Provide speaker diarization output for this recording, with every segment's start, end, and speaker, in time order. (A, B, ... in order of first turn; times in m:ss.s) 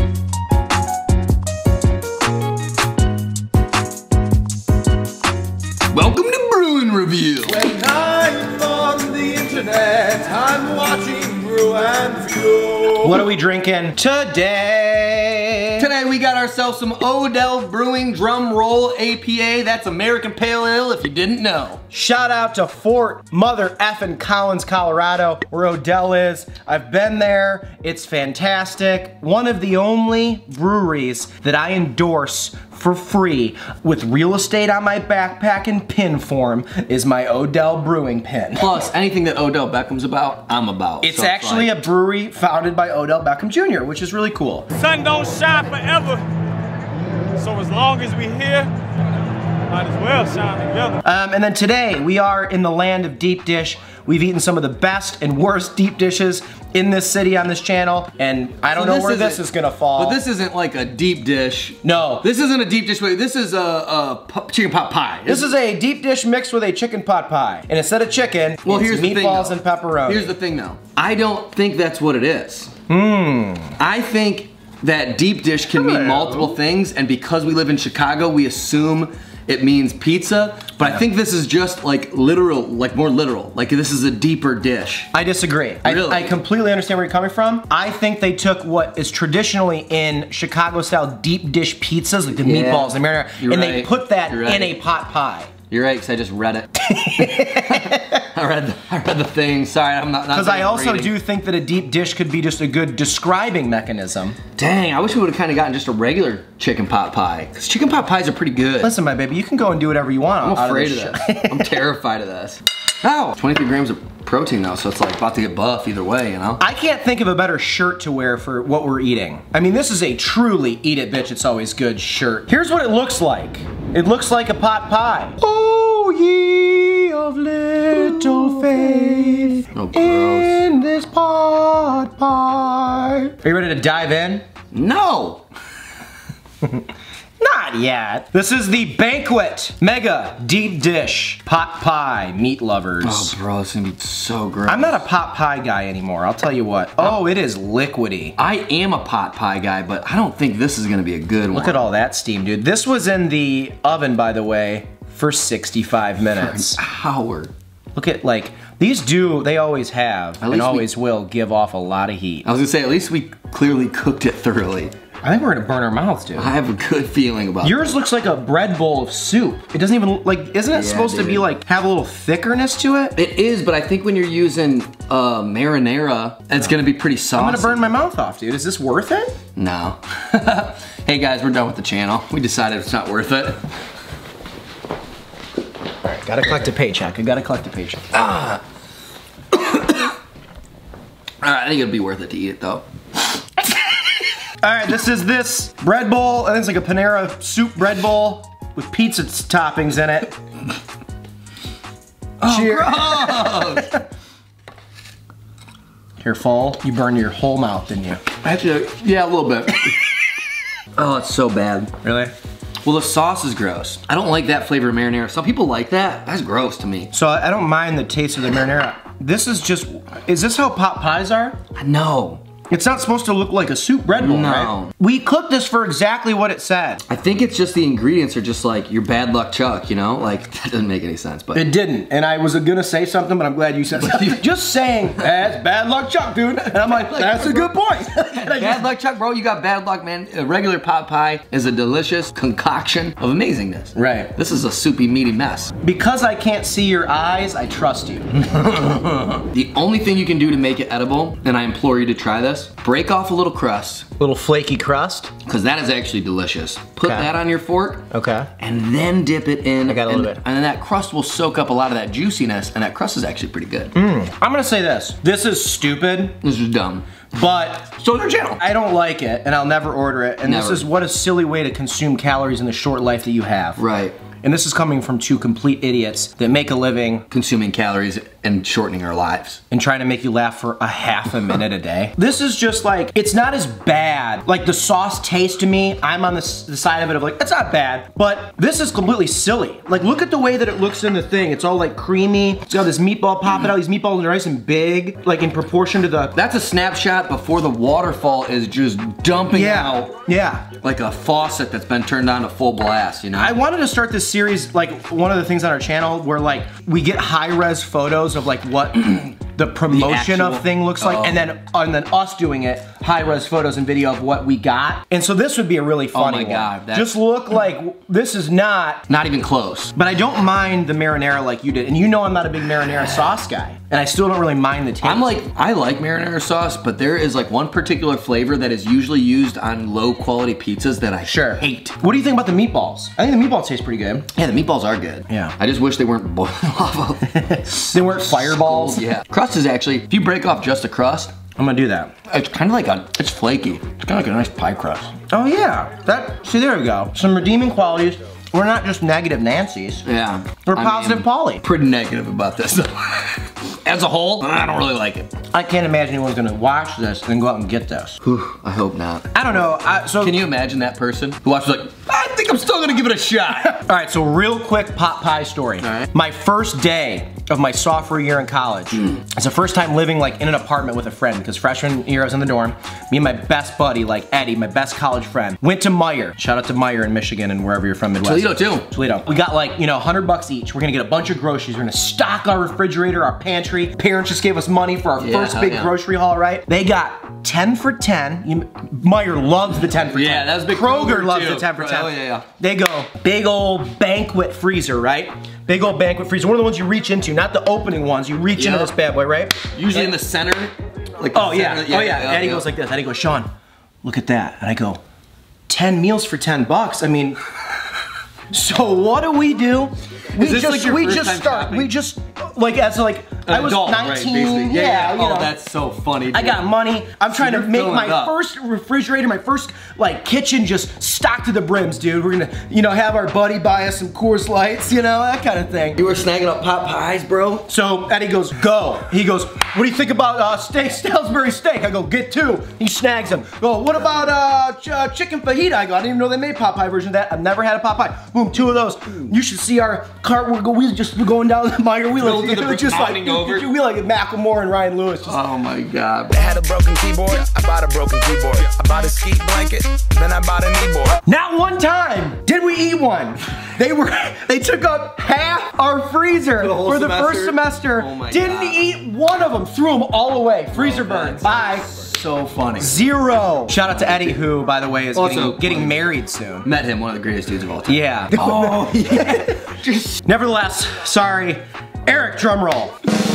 0:05.9-0:07.6 A
0:07.6-0:09.5 B
0:09.2-0:12.6 C
0:11.1-0:12.9 D
0:12.9-0:15.9 B
0:15.8-0:21.8 A
0:21.9-0:38.7 B
0:38.6-0:41.8 A
0:41.0-0:44.7 B
0:44.7-0:46.3 C
0:47.4-0:48.7 C
0:49.7-0:51.0 C
0:51.0-1:00.2 B
0:58.7-0:59.4 A
1:00.0-1:05.5 A
1:01.8-1:02.2 B
1:05.2-1:10.3 B
1:08.6-1:12.7 A
1:12.9-1:13.7 B
1:13.8-1:25.1 A
1:15.7-1:16.6 B
1:25.1-1:35.5 B
1:25.8-1:26.3 A
1:32.4-1:34.8 A
1:35.7-1:41.1 A
1:36.9-1:38.1 B
1:40.3-1:44.4 B
1:44.6-1:48.9 A
1:48.8-1:51.8 B
1:50.4-1:56.6 A
1:56.6-2:14.4 B
2:09.7-2:10.6 A
2:14.7-2:15.4 A
2:17.4-2:23.3 B
2:23.0-2:25.0 A
2:24.6-2:28.4 B
2:28.4-2:31.8 A
2:31.5-2:36.8 B
2:36.3-2:37.5 A
2:37.9-2:42.4 B
2:40.4-2:40.9 A
2:42.4-2:44.9 A
2:45.2-2:46.5 B
2:46.4-2:47.9 A
2:47.6-2:53.2 B
2:50.7-2:51.4 A
2:53.1-2:57.9 A
2:57.3-2:59.4 B
2:59.6-3:03.6 A
3:06.0-3:08.1 B
3:08.1-3:08.6 A
3:09.5-3:10.1 A
3:11.4-3:12.8 A
3:14.6-3:20.3 B
3:22.4-3:23.9 A
3:22.4-3:24.0 B
3:26.2-3:28.2 B
3:28.4-3:30.1 A
3:30.9-3:31.9 A
3:32.0-3:32.3 B
3:32.8-3:37.1 A
3:37.1-3:41.6 B
3:41.7-3:42.4 A
3:42.7-3:47.0 B
3:44.2-3:44.9 A
3:47.1-3:51.6 A
3:51.5-3:58.9 B
3:54.0-3:54.4 A
3:56.7-4:05.7 A
4:03.9-4:04.3 B
4:05.8-4:08.3 B
4:08.4-4:14.1 A
4:14.2-4:15.3 B
4:15.4-4:18.1 A
4:18.1-4:18.5 B
4:18.6-4:23.9 A
4:19.8-4:20.4 B
4:23.9-4:26.4 B
4:26.4-4:27.1 A
4:27.3-4:28.0 B
4:28.0-4:28.6 A
4:28.6-4:33.8 B
4:30.4-4:30.9 A
4:33.8-4:34.2 A
4:34.4-4:37.2 B
4:37.3-4:39.6 A
4:39.7-4:56.4 B
4:56.3-5:00.2 A
4:59.5-5:00.6 B
5:00.8-5:03.5 A
5:03.3-5:19.0 B
5:09.9-5:11.4 A
5:16.1-5:17.2 A
5:19.1-5:19.9 A
5:19.9-5:25.4 B
5:23.0-5:23.3 A
5:25.0-5:32.0 A
5:31.2-5:34.3 B
5:34.3-5:41.3 A
5:35.3-5:35.5 B
5:37.3-5:39.1 B
5:41.6-5:42.1 B
5:42.3-5:45.1 A
5:45.3-5:50.0 B
5:50.0-5:55.3 A
5:50.6-5:51.6 B
5:55.5-5:58.2 B
5:58.2-5:59.3 A
5:59.3-6:00.4 B
6:00.2-6:03.8 A
6:03.7-6:40.2 B
6:05.8-6:06.1 A
6:18.2-6:18.9 A
6:25.2-6:25.9 A
6:30.1-6:32.4 A
6:38.5-6:38.9 A
6:39.7-6:42.6 A
6:41.3-6:43.5 B
6:44.0-6:45.0 B
6:45.7-6:47.4 B
6:48.5-6:55.5 B
6:50.3-6:51.9 A
6:53.4-6:56.6 A
6:56.3-7:06.0 B
6:57.3-6:58.3 A
7:06.0-7:07.6 A
7:07.7-7:25.4 B
7:22.2-7:23.6 A
7:25.3-7:26.7 A
7:26.4-7:31.2 D
7:31.2-7:41.8 B
7:36.6-7:38.8 A
7:40.7-7:43.0 A
7:42.8-7:46.7 B
7:43.8-7:44.4 A
7:45.1-7:46.0 A
7:46.6-7:50.2 A
7:47.9-7:49.4 B
7:50.2-7:52.9 B